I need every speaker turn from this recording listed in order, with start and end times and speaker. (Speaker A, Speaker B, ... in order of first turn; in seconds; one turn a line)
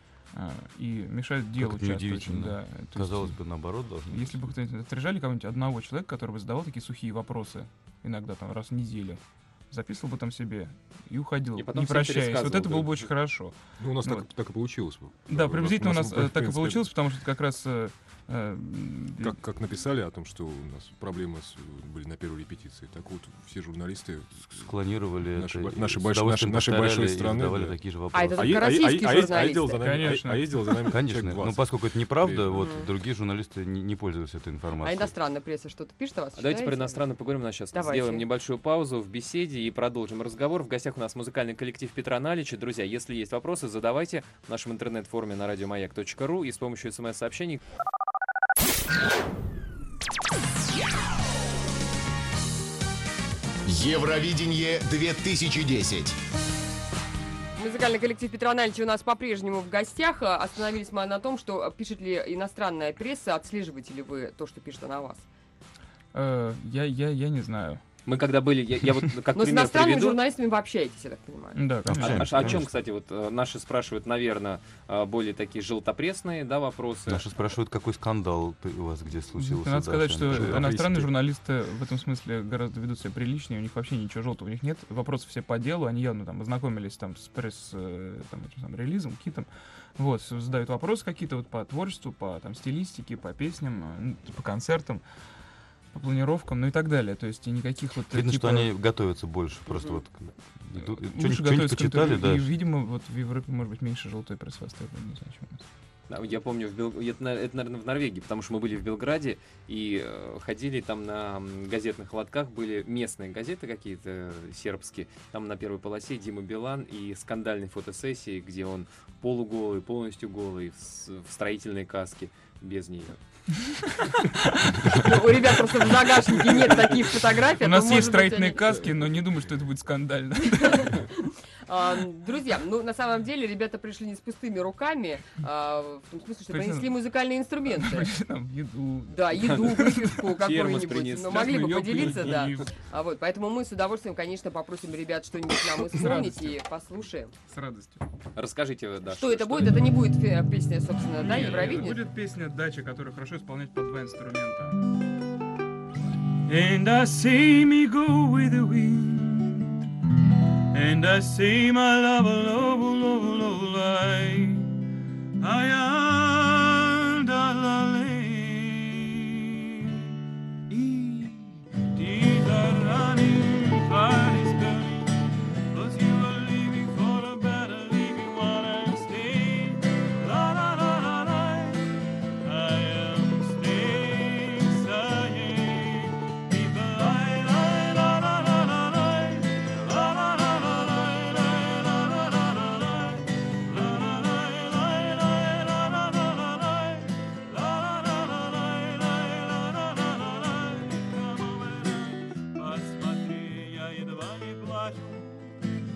Speaker A: 0.3-3.4
Speaker B: 1.6-4.5
Speaker A: 4.1-14.3
Speaker C: 11.6-13.1
Speaker D: 13.8-16.9
Speaker A: 15.2-19.4
Speaker D: 19.2-24.7
Speaker B: 24.6-28.7
Speaker D: 25.3-27.8
Speaker E: 28.1-30.0
Speaker D: 28.3-32.7
Speaker A: 29.8-30.9
Speaker B: 30.9-35.1
Speaker E: 32.5-32.9
Speaker E: 34.8-37.0
Speaker C: 36.4-47.6
Speaker E: 37.7-38.2
Speaker F: 53.6-56.1
Speaker E: 57.6-65.2
Speaker A: 66.1-67.8
Speaker C: 68.0-70.2
Speaker E: 69.3-71.7
Speaker A: 71.5-72.4
Speaker B: 71.8-72.7
Speaker C: 71.9-77.3
Speaker B: 77.0-81.1
Speaker A: 79.3-95.0
Speaker A: 95.9-98.7
Speaker B: 98.1-102.6
Speaker E: 99.7-100.0
Speaker A: 100.7-105.7
Speaker C: 106.1-123.2
Speaker A: 123.6-125.1
Speaker E: 124.9-128.8
Speaker A: 127.6-131.1
Speaker E: 130.5-138.1
Speaker A: 136.5-137.0
Speaker A: 137.7-140.4
Speaker E: 139.1-147.3
Speaker C: 140.3-142.4
Speaker A: 141.3-142.7
Speaker A: 145.7-146.6
Speaker A: 147.4-148.0
Speaker C: 148.3-149.8
Speaker E: 149.1-152.1
Speaker A: 151.1-154.8
Speaker A: 156.5-159.9
Speaker A: 160.7-164.7
Speaker A: 165.4-170.2
Speaker A: 170.7-205.6